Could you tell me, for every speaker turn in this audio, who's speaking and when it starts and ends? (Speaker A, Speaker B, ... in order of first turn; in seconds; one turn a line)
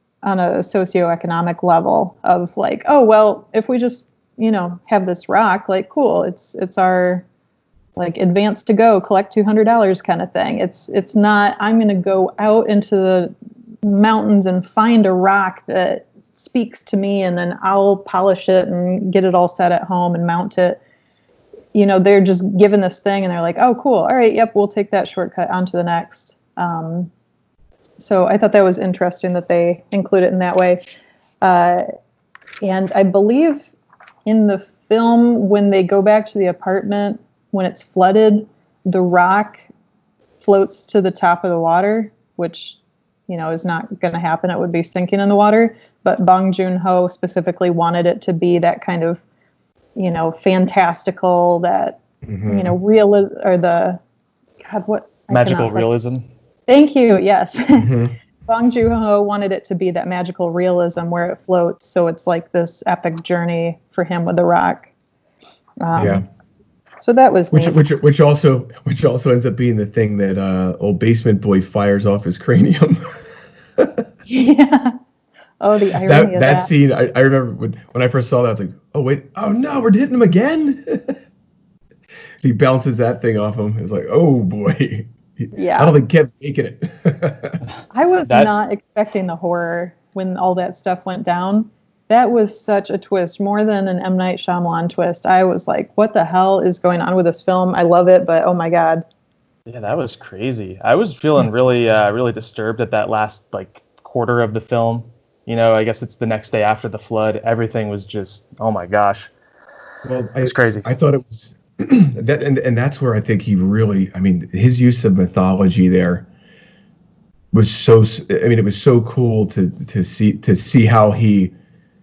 Speaker A: 0.2-7.2
Speaker A: 8.0-20.8
Speaker A: 21.7-27.1
Speaker A: 28.0-30.8
Speaker A: 31.4-31.9
Speaker A: 32.6-33.7
Speaker A: 34.3-39.6
Speaker A: 40.4-49.2
Speaker A: 50.0-54.0
Speaker B: 52.3-52.8
Speaker A: 54.6-55.9
Speaker C: 55.3-56.3
Speaker A: 56.7-57.9
Speaker B: 57.8-58.1
Speaker A: 58.5-64.9
Speaker A: 65.8-66.2
Speaker B: 66.0-66.2
Speaker A: 67.0-67.8
Speaker B: 67.5-73.2
Speaker B: 73.8-74.0
Speaker A: 74.3-75.0
Speaker A: 75.6-76.7
Speaker B: 76.0-81.2
Speaker B: 82.4-87.6
Speaker A: 85.5-86.0
Speaker A: 87.9-99.0
Speaker C: 99.7-109.3
Speaker B: 110.0-116.3
Speaker C: 110.4-110.9
Speaker B: 117.5-121.5